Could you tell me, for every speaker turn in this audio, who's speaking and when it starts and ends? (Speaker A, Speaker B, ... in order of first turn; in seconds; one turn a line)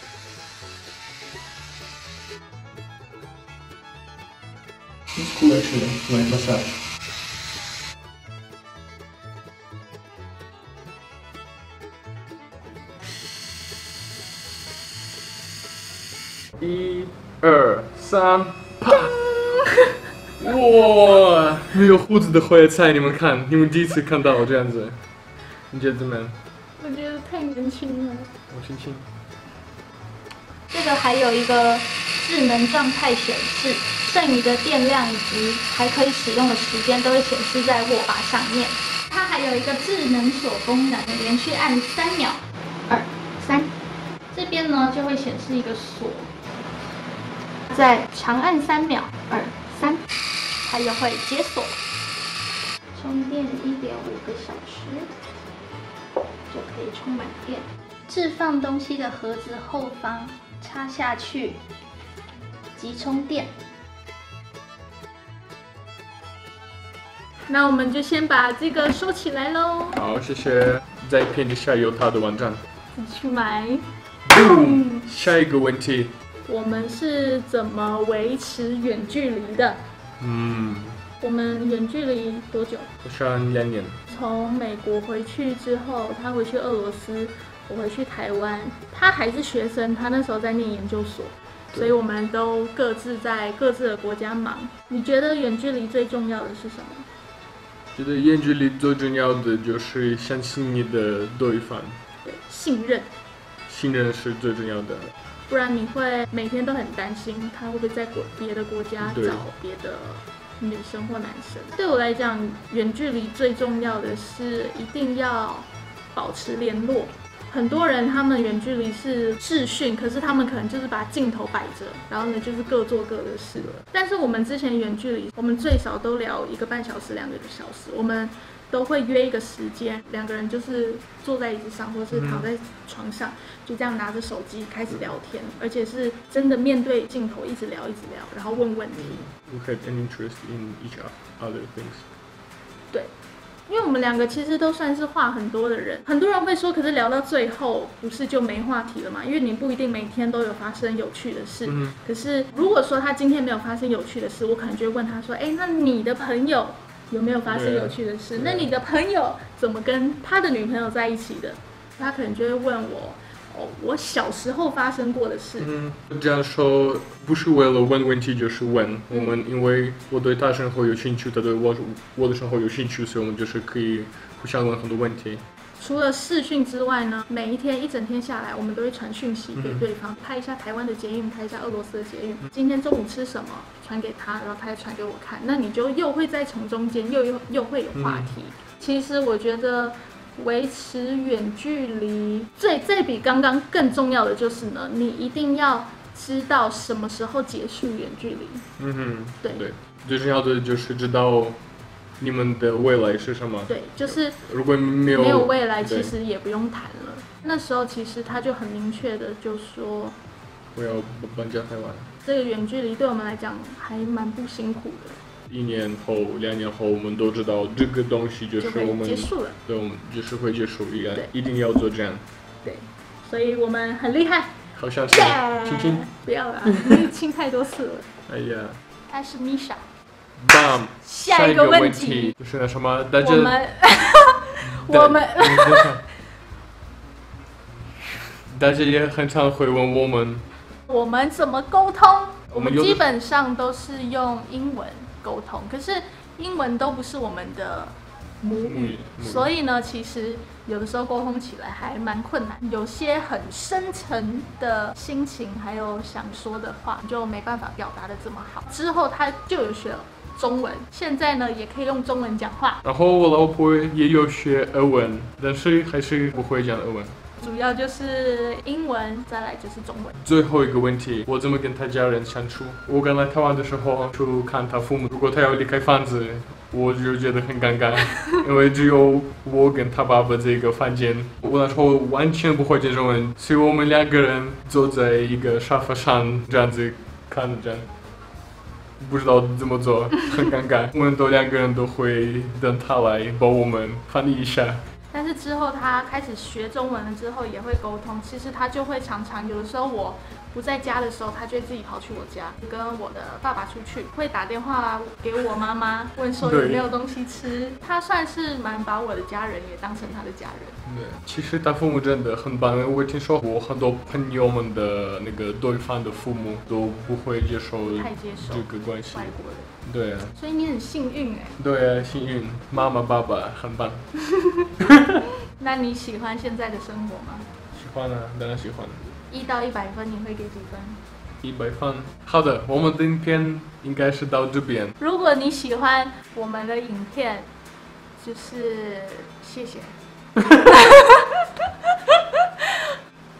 Speaker A: 5.2-6.8
Speaker A: 16.6-19.2
Speaker B: 19.3-19.9
Speaker A: 20.4-25.0
Speaker A: 25.7-26.4
Speaker B: 26.8-28.3
Speaker A: 28.5-29.1
Speaker B: 30.7-43.7
Speaker B: 44.3-46.3
Speaker B: 47.7-50.0
Speaker B: 50.6-51.8
Speaker B: 52.9-55.1
Speaker B: 56.5-61.6
Speaker B: 62.8-63.5
Speaker B: 67.5-70.0
Speaker A: 70.0-72.6
Speaker B: 73.0-75.1
Speaker A: 74.2-76.1
Speaker B: 76.5-79.8
Speaker A: 80.2-81.0
Speaker B: 81.2-82.9
Speaker A: 83.0-84.0
Speaker B: 84.1-97.1
Speaker A: 98.0-102.0
Speaker B: 102.2-103.1
Speaker A: 103.7-105.1
Speaker B: 105.5-139.2
Speaker A: 109.0-109.5
Speaker A: 132.1-132.5
Speaker A: 139.0-142.1
Speaker B: 143.7-165.7
Speaker A: 151.7-152.0
Speaker A: 157.5-158.7
Speaker A: 165.6-175.4
Speaker B: 169.1-169.4
Speaker B: 175.8-198.6
Speaker A: 179.6-179.8
Speaker A: 187.9-188.3
Speaker A: 198.8-201.6
Speaker A: 202.2-206.1
Speaker B: 203.7-204.4
Speaker B: 205.1-210.2
Speaker A: 210.8-212.1
Speaker B: 212.3-215.2
Speaker A: 215.5-222.2
Speaker B: 218.6-219.6
Speaker B: 222.6-224.6
Speaker A: 224.8-226.1
Speaker B: 225.1-228.1
Speaker A: 226.7-227.1
Speaker A: 228.3-228.8
Speaker B: 229.1-229.8
Speaker A: 230.4-233.6
Speaker B: 231.0-232.3
Speaker B: 233.2-235.9
Speaker A: 234.7-236.0
Speaker A: 238.5-240.5
Speaker B: 240.9-262.8
Speaker A: 242.5-243.0
Speaker A: 248.6-249.5
Speaker A: 262.8-267.2
Speaker B: 267.4-270.1
Speaker A: 270.2-287.9
Speaker A: 289.0-294.8
Speaker B: 295.1-310.8
Speaker A: 306.4-306.9
Speaker A: 310.9-320.3
Speaker B: 317.8-319.7
Speaker B: 320.4-321.6
Speaker A: 321.6-324.1
Speaker B: 324.3-324.7
Speaker A: 324.9-325.2
Speaker B: 325.6-327.5
Speaker A: 327.7-329.0
Speaker B: 329.3-331.0
Speaker A: 331.4-334.9
Speaker B: 335.0-337.5
Speaker B: 338.2-340.0
Speaker B: 340.5-342.9